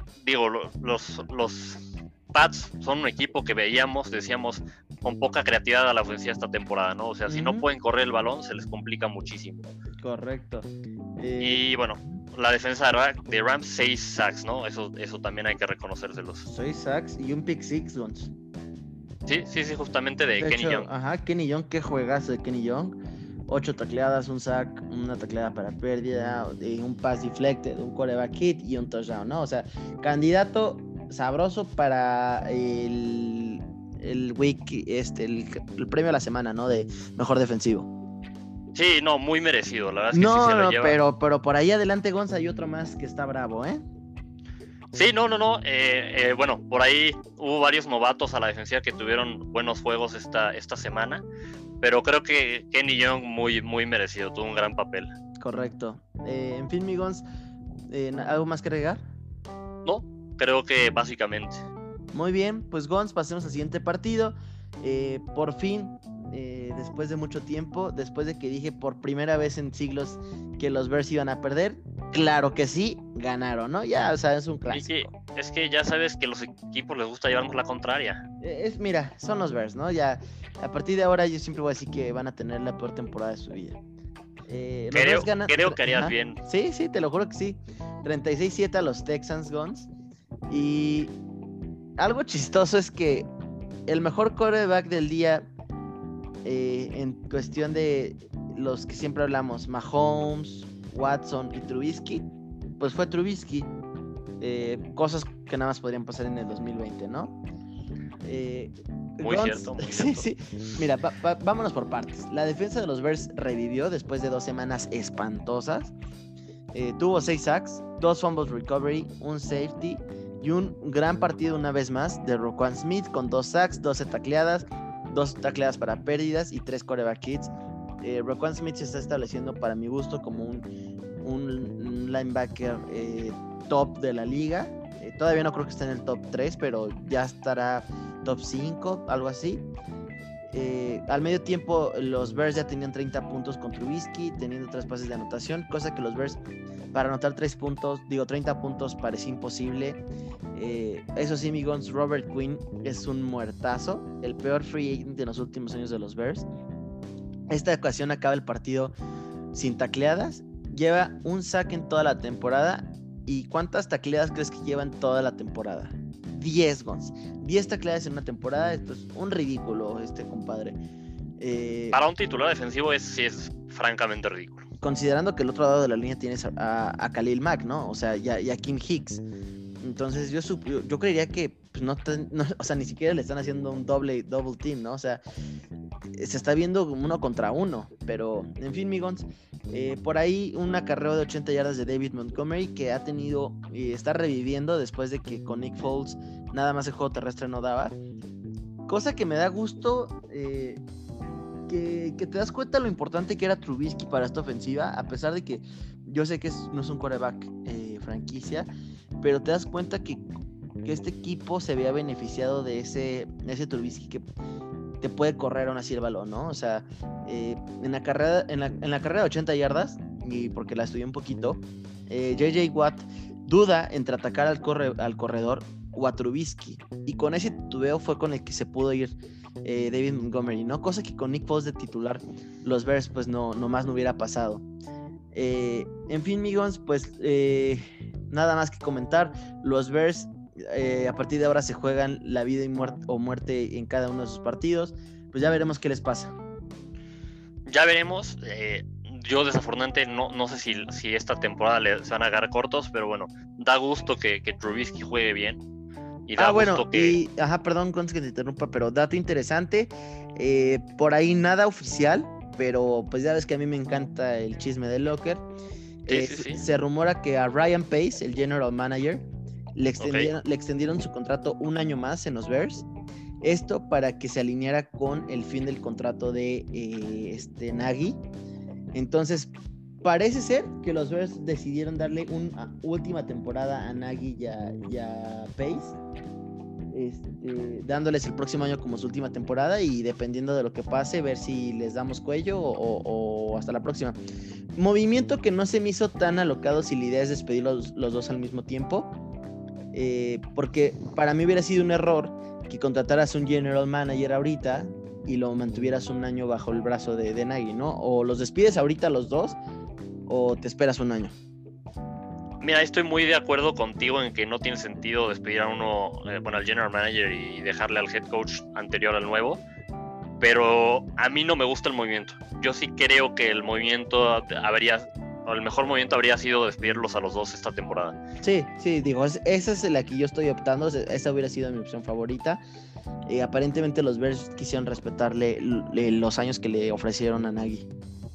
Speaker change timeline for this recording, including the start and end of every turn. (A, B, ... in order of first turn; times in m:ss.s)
0:00.2-0:09.7 A
0:07.3-0:07.6 B
0:10.0-0:11.6 B
0:11.4-0:16.5 A
0:16.4-0:18.3 B
0:19.2-0:20.9 A
0:20.4-0:37.9 B
0:38.7-0:41.0 A
0:40.1-0:43.8 B
0:44.9-0:51.2 A
0:51.8-0:55.1 A
0:55.4-0:57.2 B
0:57.9-0:59.0 B
0:59.8-1:01.6 A
1:02.1-1:15.1 B
1:14.7-1:18.2 A
1:18.4-1:23.8 B
1:24.5-1:29.9 B
1:24.9-1:26.4 A
1:30.5-1:31.2 B
1:32.0-1:33.3 B
1:33.9-1:35.5 B
1:36.4-1:42.2 B
1:42.8-1:43.7 B
1:44.4-1:47.4 B
1:48.2-1:55.9 B
1:49.2-1:50.3 A
1:56.7-2:10.6 B
2:11.2-2:19.6 B
2:20.5-2:26.4 B
2:26.9-2:30.0 B
2:30.5-2:36.5 B
2:37.5-2:38.9 B
2:39.5-2:50.8 B
2:51.4-2:52.0 B
2:51.9-2:54.7 A
2:54.8-2:59.2 B
2:59.8-3:05.2 B
3:06.2-3:18.0 B
3:18.9-3:20.8 B
3:21.7-3:28.7 B
3:29.2-3:30.2 B
3:30.8-3:34.3 B
3:35.0-3:54.6 B
3:55.3-4:06.3 B
4:07.7-4:15.6 A
4:16.3-4:17.2 A
4:16.4-4:25.4 B
4:26.0-4:32.9 B
4:26.1-4:26.6 A
4:30.0-4:30.3 A
4:33.4-4:38.2 B
4:38.9-4:46.0 B
4:46.9-4:54.2 B
4:54.8-4:59.1 B
4:59.9-5:09.6 B
5:10.2-5:11.3 B
5:12.6-5:19.6 A
5:20.4-5:28.2 A
5:28.4-5:32.6 B
5:33.3-5:37.9 B